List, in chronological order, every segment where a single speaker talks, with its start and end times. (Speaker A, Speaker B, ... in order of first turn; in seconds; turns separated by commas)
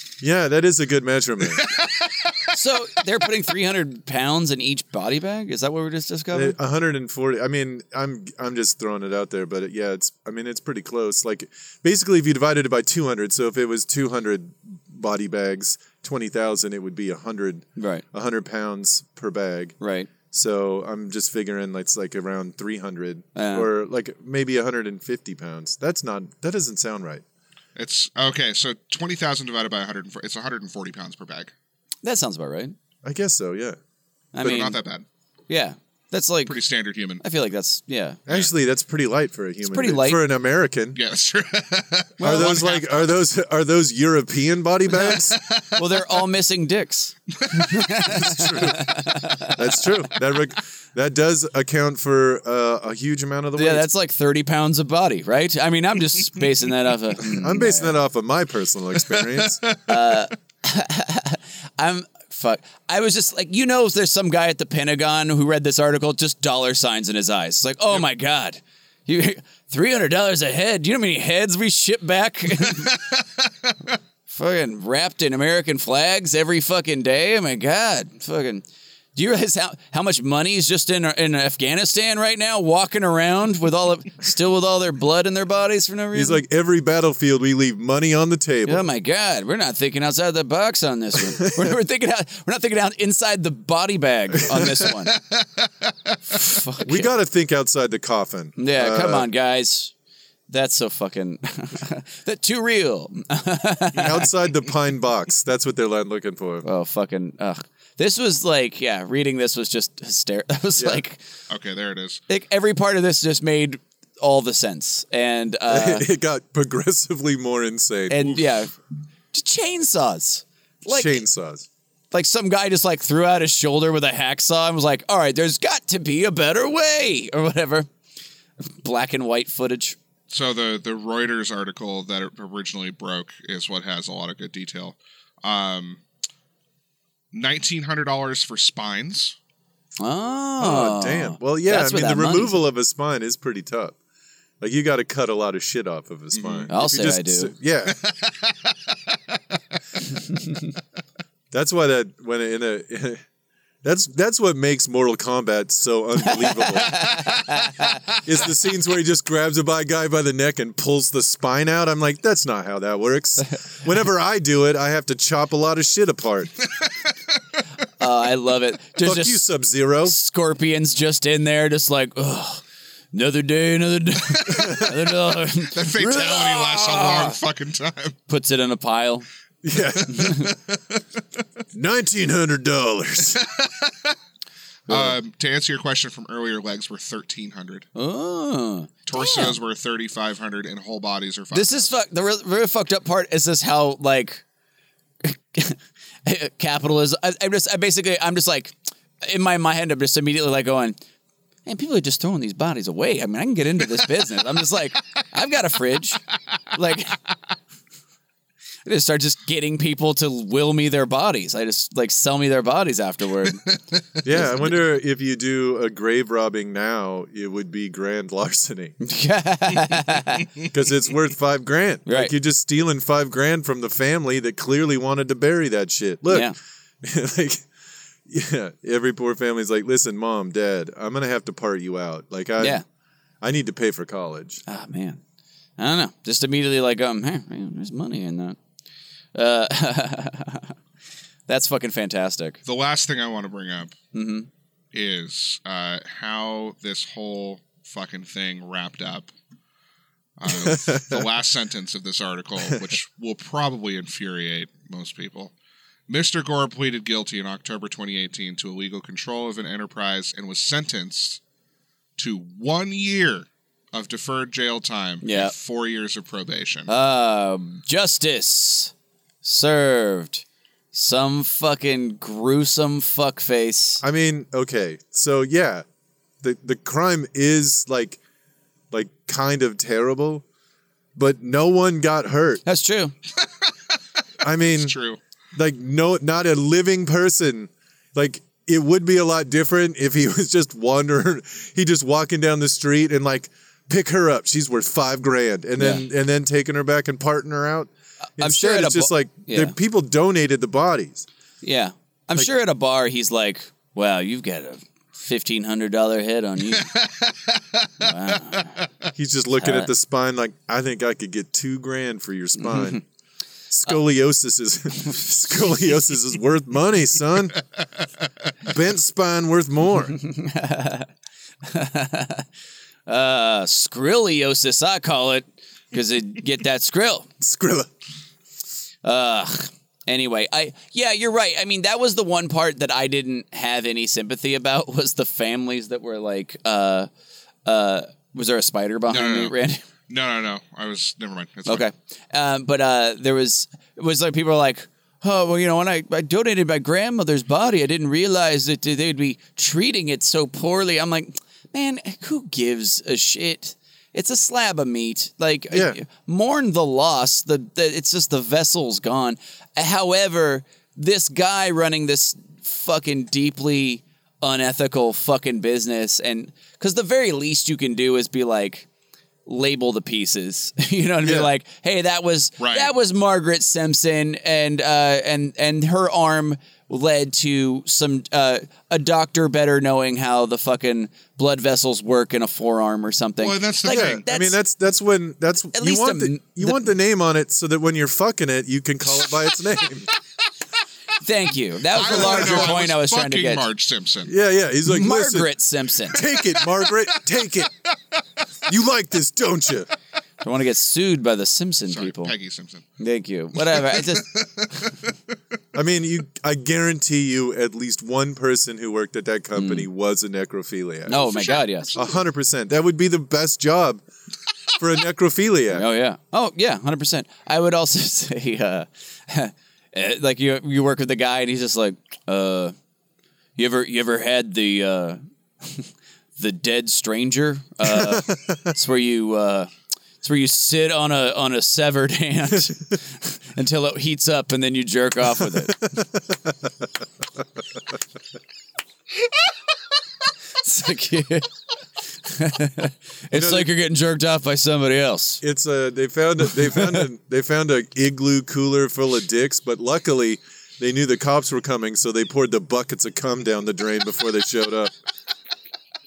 Speaker A: 0.2-1.6, Speaker B: 1.5-2.4, Speaker C: 2.5-6.5, Speaker A: 6.3-19.8, Speaker C: 17.8-18.0, Speaker C: 19.8-20.1, Speaker A: 20.3-27.2, Speaker C: 23.4-23.7, Speaker B: 27.8-31.5, Speaker C: 32.0-32.7, Speaker A: 33.0-33.8, Speaker C: 34.3-34.8, Speaker B: 34.4-35.0, Speaker C: 35.5-36.5, Speaker B: 36.5-37.2, Speaker C: 37.2-38.2, Speaker A: 38.3-41.0, Speaker C: 39.6-40.2, Speaker B: 40.9-42.9, Speaker C: 42.2-42.6, Speaker A: 42.2-45.4, Speaker B: 44.9-46.2, Speaker C: 45.7-49.6, Speaker B: 47.5-47.8, Speaker A: 48.0-53.9, Speaker C: 53.5-58.0, Speaker A: 57.2-59.6, Speaker B: 59.1-60.1, Speaker C: 59.9-73.0, Speaker B: 72.7-73.2, Speaker C: 74.3-86.4, Speaker A: 86.1-88.9, Speaker C: 88.7-95.1, Speaker A: 91.2-91.8, Speaker A: 94.4-94.6, Speaker B: 94.7-95.9, Speaker C: 96.3-97.1, Speaker A: 96.8-99.3, Speaker C: 98.6-99.9, Speaker C: 100.5-104.3, Speaker A: 103.9-106.7, Speaker C: 106.6-111.2, Speaker A: 110.8-111.0, Speaker B: 111.5-112.2, Speaker C: 112.3-116.0, Speaker A: 115.7-118.4, Speaker C: 118.1-118.7, Speaker C: 119.3-121.2, Speaker A: 120.9-121.7, Speaker C: 122.1-127.9, Speaker C: 128.7-129.9, Speaker B: 130.3-136.0, Speaker B: 137.3-139.3, Speaker C: 140.0-142.6, Speaker A: 140.6-143.9, Speaker A: 144.6-148.0, Speaker B: 146.3-146.7, Speaker C: 146.7-147.5, Speaker B: 147.9-149.2, Speaker A: 151.5-153.2, Speaker A: 153.8-157.0, Speaker C: 156.2-158.0, Speaker A: 158.2-166.6, Speaker C: 168.0-169.4, Speaker A: 169.0-170.2, Speaker C: 170.0-177.3, Speaker A: 174.5-174.9, Speaker B: 175.7-178.2, Speaker C: 178.3-179.3, Speaker A: 179.6-180.6, Speaker C: 180.1-180.5, Speaker A: 181.7-183.5, Speaker B: 183.4-183.9, Speaker B: 184.9-187.9, Speaker C: 187.9-189.6, Speaker B: 189.1-191.9, Speaker C: 191.5-194.4, Speaker C: 195.2-201.0, Speaker C: 201.7-206.2, Speaker C: 206.7-207.2, Speaker C: 208.8-213.6, Speaker A: 214.2-218.9, Speaker C: 214.3-214.7, Speaker C: 219.0-220.5, Speaker A: 220.7-227.7, Speaker C: 222.1-222.3, Speaker C: 226.3-226.6, Speaker A: 228.2-232.8, Speaker C: 232.6-232.8, Speaker A: 233.4-234.6, Speaker C: 234.7-235.2, Speaker C: 235.8-238.6, Speaker C: 239.3-240.7, Speaker C: 241.5-242.6, Speaker B: 242.7-243.9, Speaker C: 244.1-244.5, Speaker B: 244.9-249.3, Speaker B: 250.4-255.5, Speaker A: 250.5-251.2, Speaker B: 256.1-261.4, Speaker B: 262.2-266.9, Speaker C: 265.2-265.5, Speaker C: 266.9-274.0, Speaker A: 274.0-275.8, Speaker A: 276.4-278.2, Speaker A: 278.9-280.4, Speaker A: 281.1-282.6, Speaker C: 282.6-283.1, Speaker A: 284.4-284.9, Speaker B: 284.6-285.2, Speaker A: 285.5-301.2, Speaker C: 295.8-296.0, Speaker C: 298.4-299.7, Speaker C: 301.6-306.9, Speaker B: 306.8-308.6, Speaker C: 308.0-308.7, Speaker A: 309.1-313.0, Speaker C: 309.6-309.9, Speaker C: 312.6-313.0, Speaker A: 313.7-317.6, Speaker A: 318.6-320.2, Speaker C: 320.1-321.1, Speaker C: 321.6-322.5, Speaker C: 323.1-327.3, Speaker A: 327.4-327.9, Speaker C: 329.0-337.1, Speaker C: 337.6-339.8, Speaker B: 339.1-339.5, Speaker B: 340.1-341.9, Speaker C: 341.6-368.9, Speaker A: 355.7-356.0, Speaker C: 369.4-384.6, Speaker A: 371.2-371.5, Speaker B: 372.6-372.9, Speaker B: 383.4-384.2, Speaker A: 383.9-390.1, Speaker C: 385.7-386.9, Speaker C: 391.2-393.6, Speaker B: 391.9-394.3, Speaker A: 394.2-395.5, Speaker C: 394.8-396.2, Speaker A: 396.1-397.7, Speaker A: 398.7-399.9, Speaker C: 400.4-402.3, Speaker B: 401.9-402.9, Speaker C: 403.0-404.9, Speaker B: 403.7-405.1, Speaker A: 405.7-411.3, Speaker C: 409.5-409.9, Speaker C: 411.1-412.0, Speaker B: 411.1-412.1, Speaker A: 411.9-414.0, Speaker A: 414.8-415.9, Speaker C: 415.7-422.7, Speaker C: 423.6-435.8, Speaker A: 427.8-428.7, Speaker A: 435.7-436.7, Speaker C: 440.6-441.5, Speaker C: 442.2-445.4, Speaker A: 443.3-443.7, Speaker A: 445.4-454.9